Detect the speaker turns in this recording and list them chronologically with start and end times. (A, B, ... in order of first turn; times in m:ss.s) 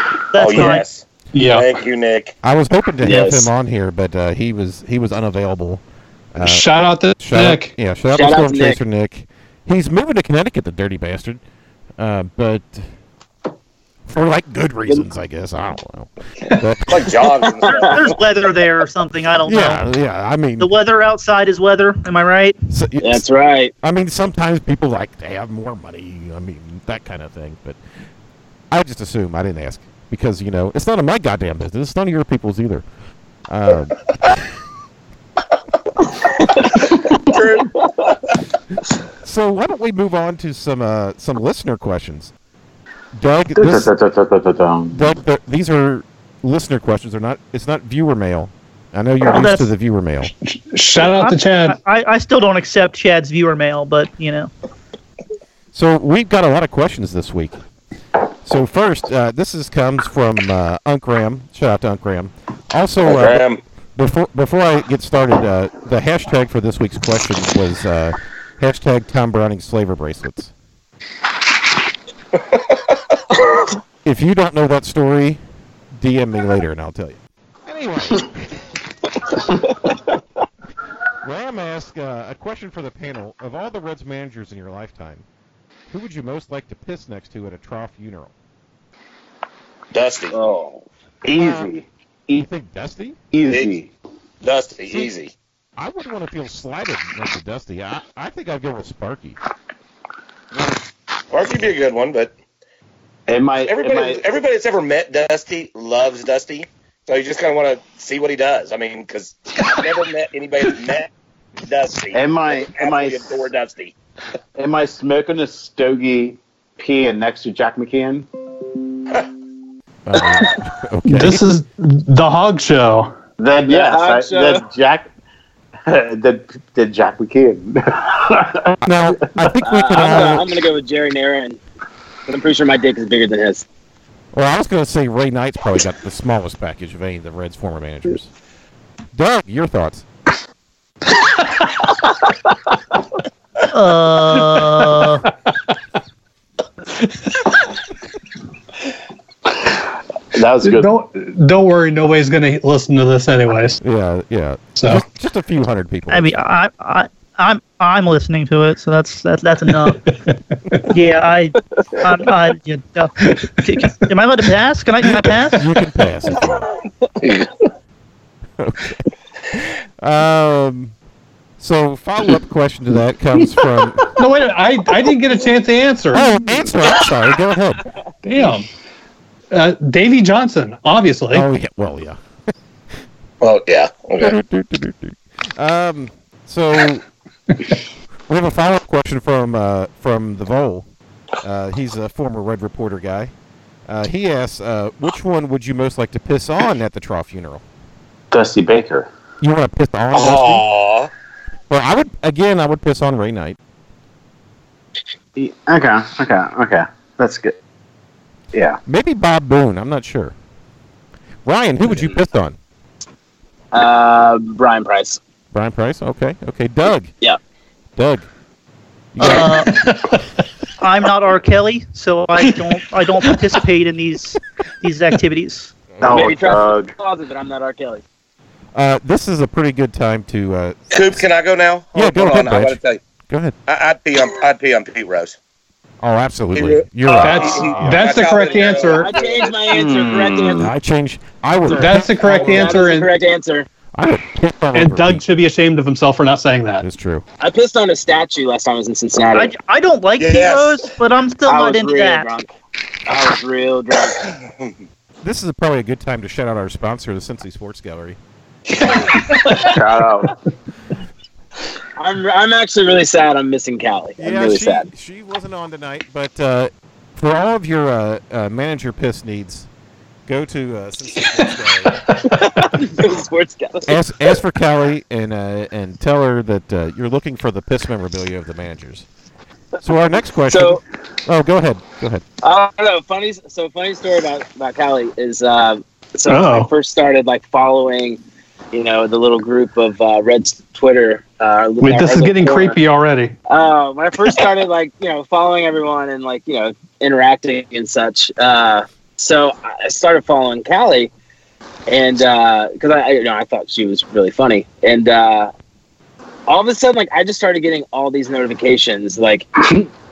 0:00.3-0:00.8 A
0:00.4-0:02.3 B
0:01.3-0:01.7 C
0:02.4-0:05.8 D
0:03.0-0:03.5 E
0:06.3-0:11.4 D
0:06.4-0:07.7 C
0:08.1-0:08.8 E
0:12.0-0:12.9 D
0:14.1-0:17.1 D
0:16.9-0:18.1 B
0:17.4-0:17.9 E
0:17.7-0:19.8 A
0:19.4-0:20.7 D
0:20.6-0:22.6 A
0:22.7-0:23.3 D
0:23.0-0:23.7 E
0:23.8-0:27.8 D
0:28.7-0:32.8 D
0:33.5-0:34.4 D
0:37.3-0:37.8 B
0:39.2-0:42.3 D
0:43.2-0:43.9 D
0:43.6-0:45.1 F
0:44.9-0:50.3 D
0:49.3-0:49.7 A
0:50.4-0:51.8 C
0:51.0-0:54.5 A
0:55.7-0:57.6 D
0:58.4-1:10.5 D
1:03.0-1:03.6 B
1:12.4-1:12.7 B
1:14.0-1:15.4 D
1:15.9-1:18.4 D
1:21.2-1:25.2 D
1:25.9-1:28.3 D
1:29.9-1:30.4 B
1:30.3-1:30.8 E
1:31.2-1:32.4 F
1:31.4-1:31.7 D
1:32.3-1:33.2 D
1:33.3-1:33.9 F
1:33.5-1:33.8 B
1:34.4-1:35.3 B
1:34.9-1:35.1 D
1:35.8-1:39.4 D
1:41.3-1:42.3 B
1:43.3-1:44.2 F
1:43.6-1:51.1 B
1:51.6-1:53.9 B
1:52.1-1:53.3 F
1:54.6-1:58.3 F
2:00.1-2:01.4 D
2:01.1-2:03.2 C
2:03.4-2:05.1 F
2:03.7-2:04.6 E
2:05.9-2:08.8 F
2:08.8-2:10.5 D
2:09.6-2:11.6 E
2:12.3-2:13.6 E
2:14.3-2:18.3 D
2:19.1-2:20.0 D
2:23.7-2:25.2 A
2:30.3-2:30.9 F
2:30.6-2:33.8 C
2:33.8-2:36.4 D
2:34.8-2:35.0 C
2:36.1-2:40.0 A
2:40.9-2:45.6 A
2:45.5-2:46.7 D
2:48.6-2:49.0 D
2:49.5-2:50.9 D
2:51.6-2:54.1 D
2:54.2-2:56.4 C
2:56.1-2:57.8 D
2:58.2-2:58.7 C
2:59.5-3:01.5 C
3:01.3-3:02.2 D
3:03.4-3:04.4 B
3:04.2-3:07.0 D
3:08.3-3:10.9 D
3:11.4-3:13.3 D
3:13.9-3:17.6 D
3:18.3-3:19.1 F
3:19.4-3:20.6 D
3:20.1-3:21.1 B
3:21.7-3:23.6 D
3:25.4-3:27.6 F
3:28.5-3:28.8 F
3:28.9-3:30.4 D
3:31.4-3:32.6 D
3:33.7-3:35.2 E
3:35.5-3:37.1 D
3:38.0-3:38.3 D
3:39.2-3:39.7 D
3:39.2-3:39.8 A
3:39.2-3:40.2 C
3:40.8-3:45.7 A
3:46.0-3:46.9 F
3:46.1-3:48.0 E
3:48.8-3:51.2 D
3:50.9-3:53.0 B
3:52.0-3:52.8 D
3:53.3-3:53.6 D
3:53.7-3:55.4 B
3:56.0-3:58.2 D
3:56.5-3:59.6 B
3:57.2-3:59.2 C
3:58.9-4:00.7 E
3:59.7-4:00.7 F
4:00.6-4:02.8 D
4:01.7-4:03.7 E
4:01.8-4:03.1 C
4:04.0-4:05.2 D
4:04.7-4:06.8 C
4:06.8-4:07.2 D
4:07.4-4:09.5 E
4:09.4-4:12.3 A
4:10.2-4:10.8 B
4:11.5-4:12.5 E
4:13.1-4:14.3 E
4:15.2-4:18.2 D
4:19.6-4:20.3 F
4:22.0-4:24.9 E
4:24.2-4:29.7 D
4:30.3-4:32.1 D
4:32.2-4:34.3 E
4:33.9-4:39.1 D
4:39.8-4:42.2 D
4:40.5-4:40.8 E
4:42.4-4:48.2 E
4:46.3-4:46.7 C
4:48.7-4:52.8 E
4:51.8-4:53.3 C
4:53.5-5:01.1 E
5:01.9-5:05.5 E
5:06.5-5:09.5 E